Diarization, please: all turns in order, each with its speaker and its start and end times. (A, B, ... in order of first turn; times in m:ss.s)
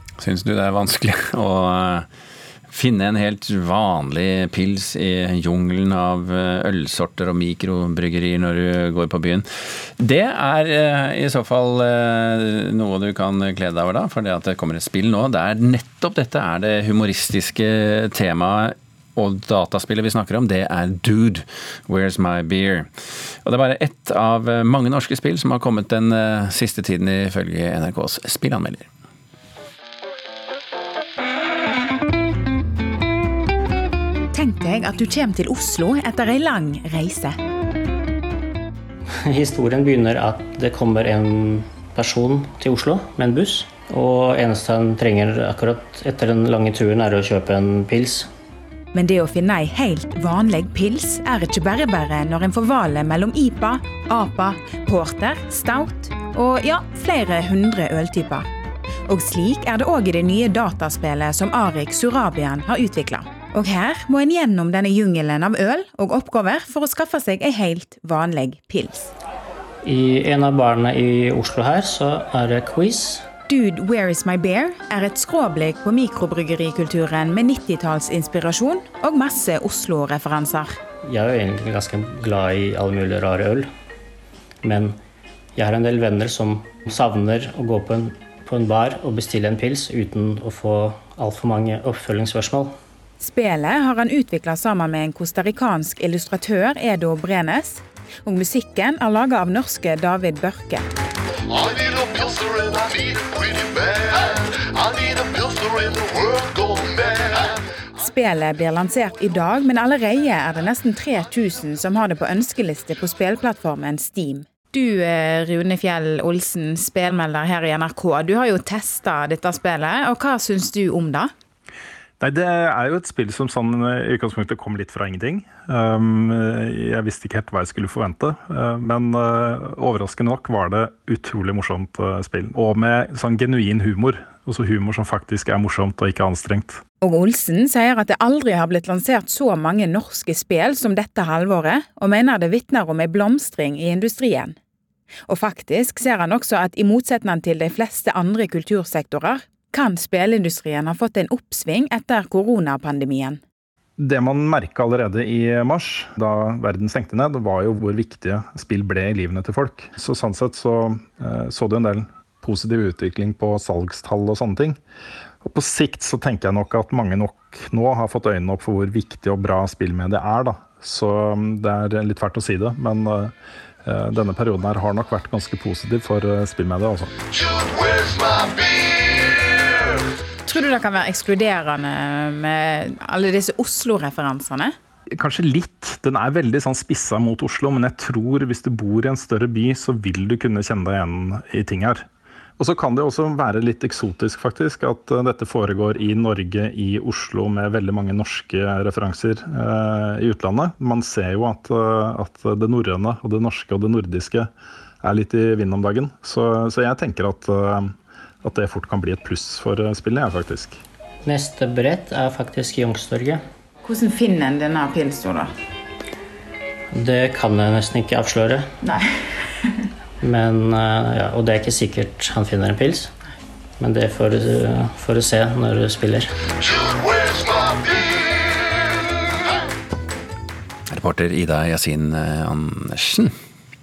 0:00.2-0:02.0 A
0:02.7-0:09.4 A
0:10.0-0:22.9 A
0:23.4-0:28.9 A
0:34.3-0:37.4 B
0:39.3-0:48.3 C
0:48.9-0:58.4 B
0:59.1-1:09.1 B
1:09.8-1:13.2 C
1:13.5-1:20.8 B
1:21.0-1:23.7 C
1:24.6-1:25.0 C
1:25.6-1:32.7 C
1:33.2-1:40.8 B
1:48.0-2:01.3 B
2:02.2-2:16.8 D
2:17.0-2:24.6 B
2:25.3-2:33.4 B
2:34.0-2:44.8 D
2:45.4-2:53.3 D
2:53.8-2:57.1 D
3:00.4-3:04.7 B
3:05.2-3:12.0 D
3:12.6-3:24.5 D
3:25.0-3:30.8 D
3:31.2-3:33.4 C
3:33.8-3:35.5 B
3:36.9-3:38.7 C
3:40.2-3:43.1 C
3:43.8-3:46.3 C
3:50.9-3:53.3 A